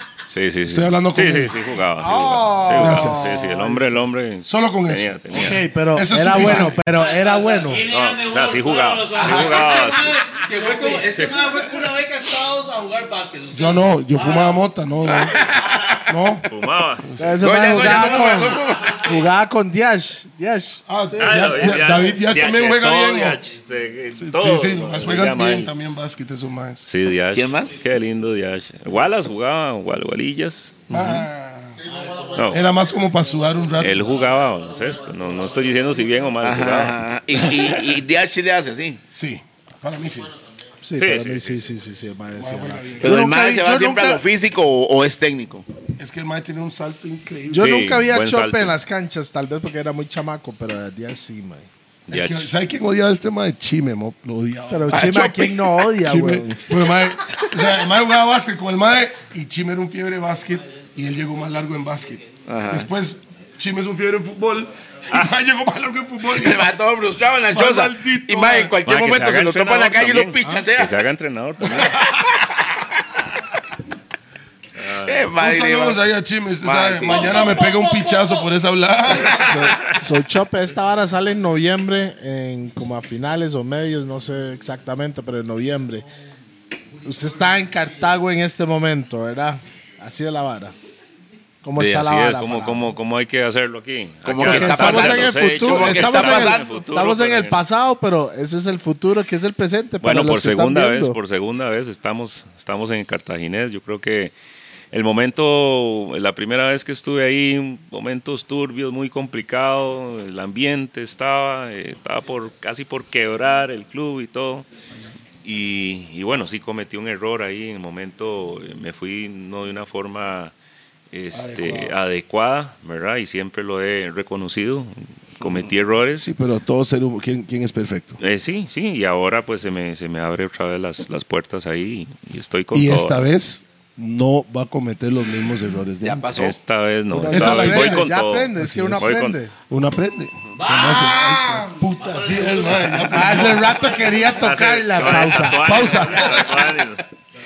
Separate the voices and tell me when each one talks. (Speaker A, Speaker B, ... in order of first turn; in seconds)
Speaker A: 0.3-5.6, 6.3-6.7, 7.8-10.4, 11.0-11.8, 16.4-17.1, 21.2-25.7, 26.9-30.8, 32.3-32.6, 33.8-37.7, 41.0-41.6, 47.6-48.7, 52.1-52.5, 68.8-72.0, 74.8-75.3, 79.6-80.0, 91.8-97.6, 100.0-104.3, 104.9-114.7, 115.4-120.5, 121.1-126.3, 128.2-133.2, 136.3-139.4, 144.3-147.0
Speaker B: 0.7-1.6, 2.7-3.4, 4.4-6.8, 13.5-15.4, 16.1-16.5, 17.0-18.3, 20.9-23.4, 24.1-26.9, 30.9-31.8, 32.5-34.2, 39.1-40.3, 42.4-43.2, 46.0-47.8, 52.1-55.2, 56.0-66.7, 67.5-68.8, 75.3-79.8, 121.3-122.0, 126.2-128.2, 132.7-136.3, 137.3-139.1, 139.7-143.8, 145.6-146.6
Speaker C: 2.0-4.0, 5.3-7.9, 9.1-9.7, 17.2-22.0, 40.8-44.2, 47.5-51.7, 54.7-56.7, 79.9-86.1, 87.0-90.7, 91.6-92.8, 94.4-101.2, 137.1-139.5, 140.9-141.7, 143.0-145.8
Speaker D: 6.7-14.6, 15.3-16.0, 18.4-19.1, 31.8-32.8, 77.0-78.5, 79.1-79.5, 86.9-88.2, 140.6-144.5, 145.1-146.5
Speaker E: 15.2-15.9, 17.4-19.1, 27.3-27.9, 30.9-31.2, 36.4-39.0, 43.0-45.6, 54.9-55.9, 62.5-62.9, 66.3-71.0, 71.7-72.9, 75.0-76.0, 76.6-77.6, 94.2-96.8, 125.4-125.7, 136.0-136.6